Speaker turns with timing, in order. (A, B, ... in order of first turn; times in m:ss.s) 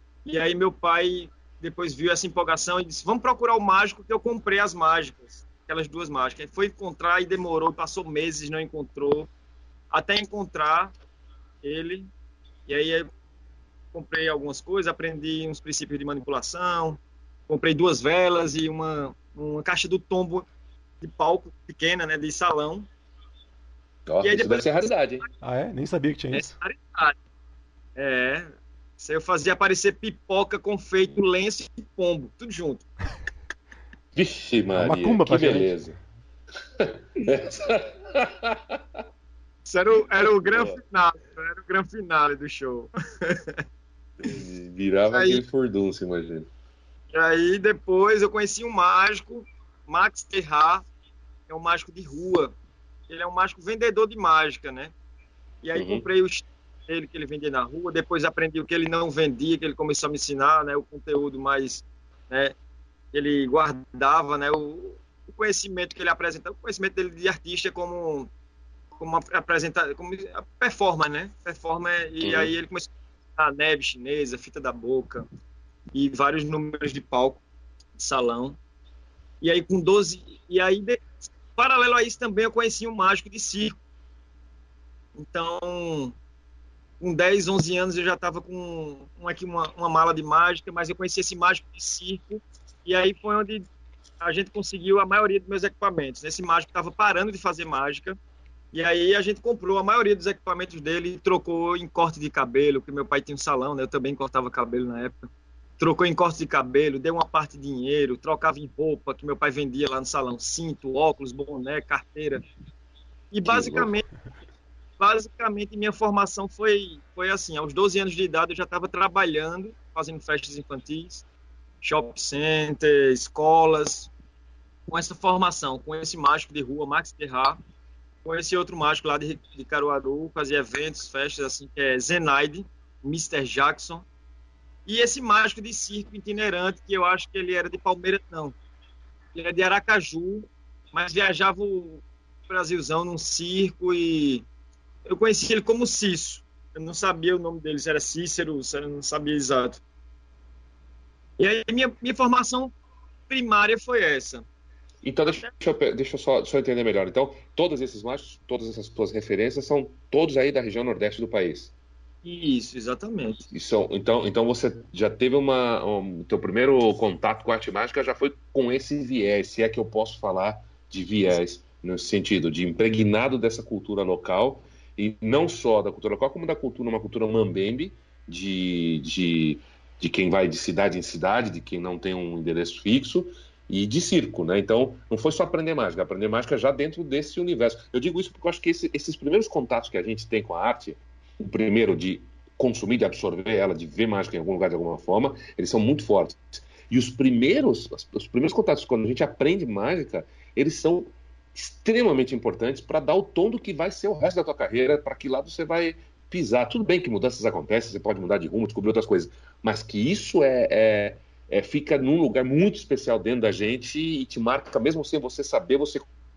0:00.3-0:09.3 A
0:09.9-0:10.9 A
0:11.6-0:12.1 A
0:12.7-0:13.1 A
0:13.9-0:20.5 A
0:21.0-0:22.9 A
0:24.1-0:25.2 B
0:24.2-0:24.9 A
0:25.4-0:26.5 C
0:26.3-0:27.2 A
0:28.0-0:32.8 A
0:34.2-0:36.0 B
0:34.8-0:35.7 C
0:36.8-0:38.8 B
0:39.7-0:43.6 A
0:40.4-0:40.8 B
0:44.2-0:46.5 B
0:45.1-0:45.4 A
0:47.1-0:50.8 A
0:51.5-0:52.6 A
0:53.1-0:54.9 A
0:55.6-1:02.6 A
0:55.8-0:56.0 B
1:03.1-1:08.3 A
1:09.0-1:15.2 A
1:12.2-1:12.5 B
1:15.9-1:17.4 A
1:18.0-1:18.6 A
1:19.4-1:23.8 A
1:25.2-1:26.2 A
1:27.0-1:33.7 A
1:34.2-1:38.2 A
1:38.7-1:45.3 A
1:45.8-1:52.4 A
1:53.3-1:54.0 A
1:53.5-1:53.9 B
1:55.0-2:01.2 A
2:01.8-2:04.1 A
2:04.9-2:07.6 A
2:08.2-2:14.0 A
2:14.9-2:18.6 A
2:19.4-2:24.5 A
2:25.1-2:29.8 A
2:31.4-2:32.7 A
2:33.3-2:34.4 A
2:35.0-2:41.7 B
2:42.2-2:43.4 A
2:43.5-3:36.1 B